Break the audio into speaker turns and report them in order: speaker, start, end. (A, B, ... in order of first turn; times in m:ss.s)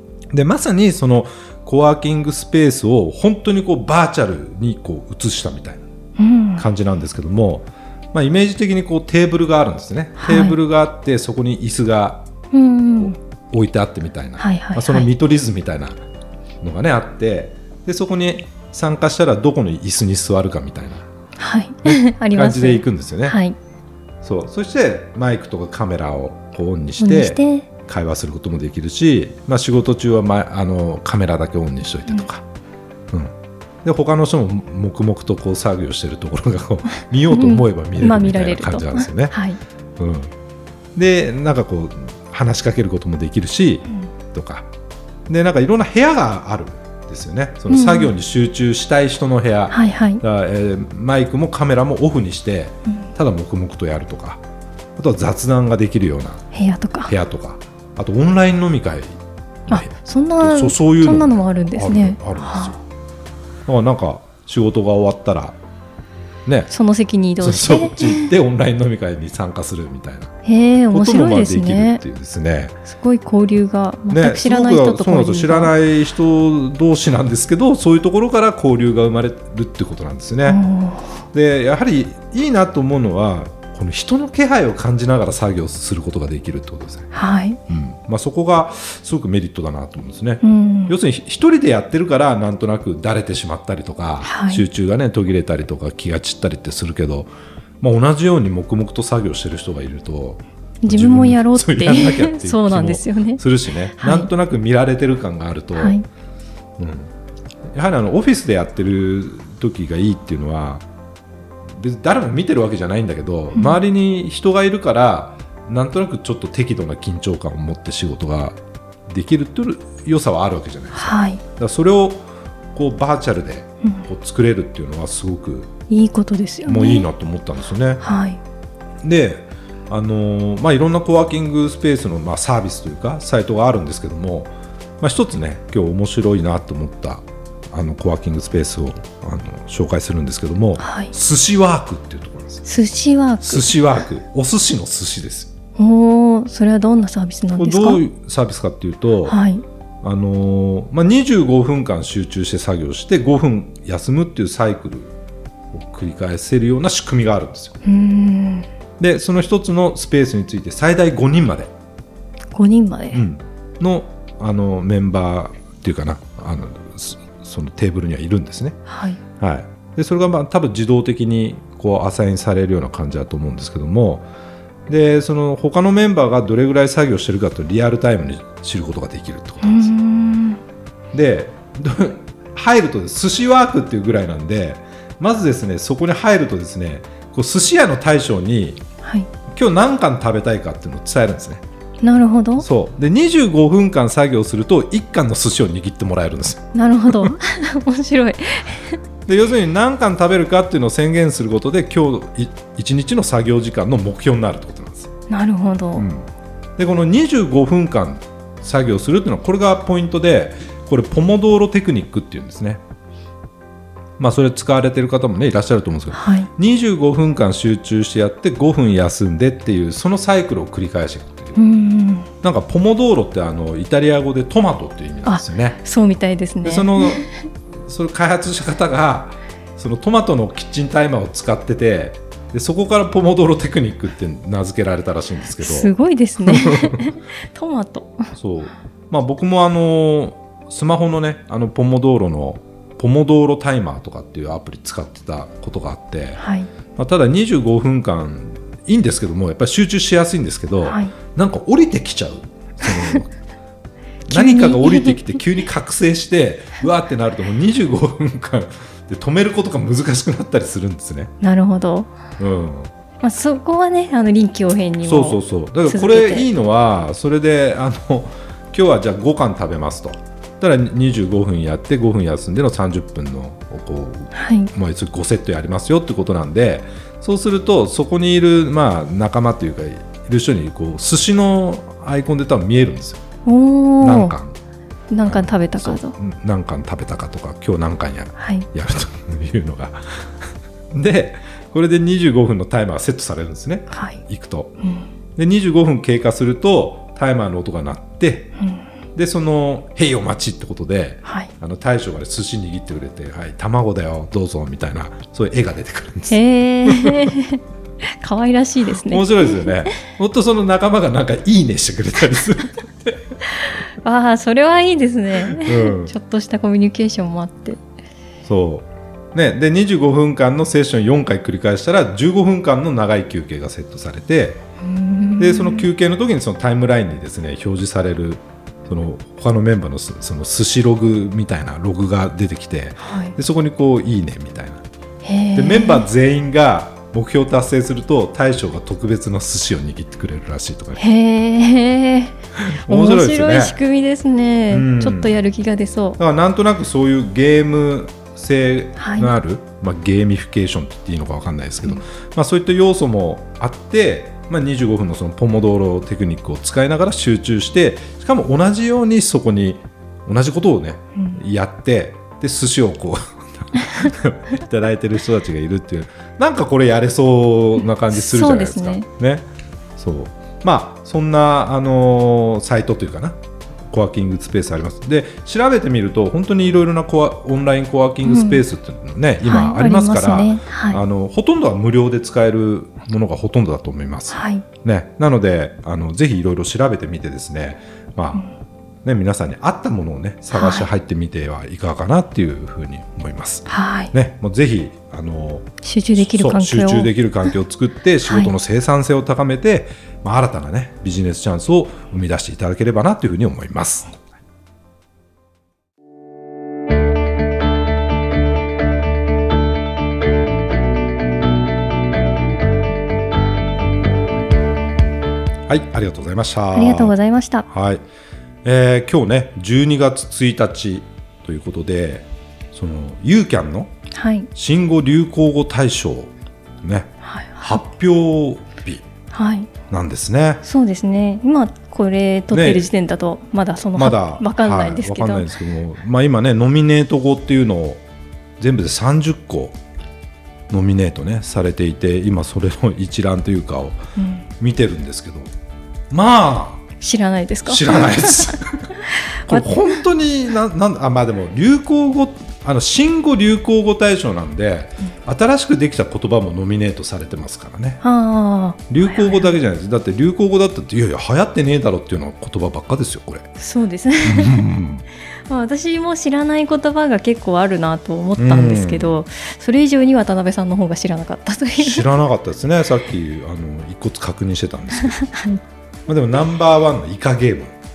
0:00.3-0:05.8 A
0:06.2-0:06.7 B
0:06.6-0:12.3 A
0:10.2-0:10.6 B
0:12.5-0:13.2 B
0:13.0-0:16.0 A
0:14.4-0:15.1 B
0:16.6-0:21.1 A
0:21.4-0:23.6 B
0:21.8-0:23.4 A
0:24.2-0:32.4 A
0:27.0-0:27.7 B
0:33.1-0:39.4 A
0:37.3-0:39.6 B
0:40.0-0:40.3 A
0:41.0-0:44.7 A
0:45.3-0:54.4 A
0:47.7-0:48.1 B
0:49.7-0:50.2 B
0:55.0-0:56.4 A
0:56.5-0:57.1 B
0:57.1-1:02.8 A
0:59.7-1:02.8 B
1:03.7-1:05.6 A
1:06.5-1:06.7 A
1:06.7-1:08.3 B
1:07.4-1:10.3 A
1:10.4-1:12.0 B
1:10.9-1:12.8 A
1:12.9-1:15.7 B
1:14.1-1:20.6 A
1:20.4-1:21.1 B
1:21.3-1:27.1 A
1:27.1-1:27.6 B
1:27.7-1:46.0 A
1:30.4-1:30.9 B
1:34.2-1:34.6 B
1:40.8-1:43.4 B
1:44.0-1:44.3 B
1:45.8-1:46.0 B
1:46.8-1:47.1 A
1:47.7-1:50.8 A
1:51.7-2:05.7 A
1:53.5-1:53.8 B
2:00.9-2:01.4 B
2:05.9-2:07.1 B
2:06.7-2:08.0 A
2:08.0-2:08.4 B
2:09.0-2:22.6 A
2:20.8-2:21.1 B
2:22.6-2:23.8 B
2:23.4-2:25.5 A
2:25.8-2:28.0 B
2:27.6-2:29.4 A
2:29.2-2:29.6 B
2:30.0-2:35.1 A
2:35.7-2:37.8 A
2:37.8-2:38.7 B
2:39.0-2:41.7 A
2:42.5-2:43.2 B
2:43.1-2:48.8 A
2:48.9-2:49.2 B
2:49.4-2:54.3 A
2:54.9-2:59.9 A
2:59.6-3:00.6 B
3:01.1-3:08.8 A
3:09.0-3:09.3 B
3:09.5-3:11.6 A
3:12.0-3:12.7 B
3:12.6-3:17.3 A
3:16.7-3:19.0 B
3:19.3-3:25.1 A
3:25.3-3:26.0 B
3:26.0-3:32.8 A
3:34.2-3:41.6 A
3:36.1-3:36.5 B
3:41.6-3:42.3 B
3:42.4-3:45.8 A
3:45.2-3:47.3 B
3:46.6-3:47.2 A
3:47.8-3:55.9 A
3:55.6-3:58.3 B
3:56.4-3:57.0 A
3:58.3-4:06.4 A
4:06.4-4:06.7 B
4:07.0-4:13.3 A
4:10.8-4:11.1 B
4:12.9-4:13.2 B
4:14.3-4:15.2 B
4:14.3-4:21.3 A
4:21.4-4:22.1 B
4:22.4-4:22.9 A
4:23.2-4:26.5 B
4:25.0-4:43.2 A
4:34.3-4:34.7 B
4:43.5-4:44.3 B
4:44.0-4:44.6 A
4:45.1-4:46.1 B
4:45.3-4:50.3 A
4:48.4-4:48.7 B
4:50.9-4:54.7 A
4:53.9-4:54.2 B
4:54.8-4:55.1 B
4:55.4-4:58.5 A
4:58.6-4:58.9 B
4:59.2-5:07.2 A
5:01.2-5:01.5 B
5:06.3-5:09.9 B
5:09.1-5:13.2 A
5:14.0-5:17.8 B
5:15.6-5:16.1 A
5:18.4-5:24.6 A
5:24.8-5:25.9 B
5:25.4-5:34.8 A
5:33.0-5:33.4 B
5:35.2-5:36.1 B
5:35.6-5:41.1 A
5:41.0-5:46.2 B
5:42.6-5:43.8 A
5:44.7-5:45.3 A
5:46.2-6:09.5 A
5:49.0-5:49.3 B
6:08.1-6:09.1 B
6:10.0-6:13.4 A
6:13.9-6:28.4 A
6:18.2-6:18.6 B
6:19.4-6:21.0 B
6:24.3-6:24.6 B
6:29.0-6:44.3 A
6:30.5-6:30.9 B
6:33.7-6:34.1 B
6:35.8-6:37.1 B
6:38.3-6:38.5 B
6:55.7-6:57.1 A
6:56.7-6:57.7 B
6:57.7-6:58.0 A
6:58.6-7:03.9 A
7:04.1-7:04.5 B
7:04.6-7:06.3 A
7:06.8-7:09.0 A
7:07.2-7:07.8 B
7:09.3-7:09.7 B
7:09.9-7:10.6 A
7:10.6-7:15.5 B
7:12.5-7:12.9 A
7:14.0-7:18.0 A
7:18.6-7:19.8 A
7:20.7-7:24.0 A
7:24.2-7:24.5 B
7:24.6-7:25.5 A
7:26.1-7:26.8 A
7:27.0-7:29.7 B
7:27.7-7:28.9 A
7:29.5-7:38.0 A
7:38.0-7:39.6 B
7:38.9-7:43.5 A
7:43.6-7:44.6 B
7:44.2-7:45.0 A
7:45.5-7:52.2 B
7:48.4-7:49.2 A
7:51.8-7:55.3 A
7:55.1-7:55.6 B
7:56.1-7:57.8 A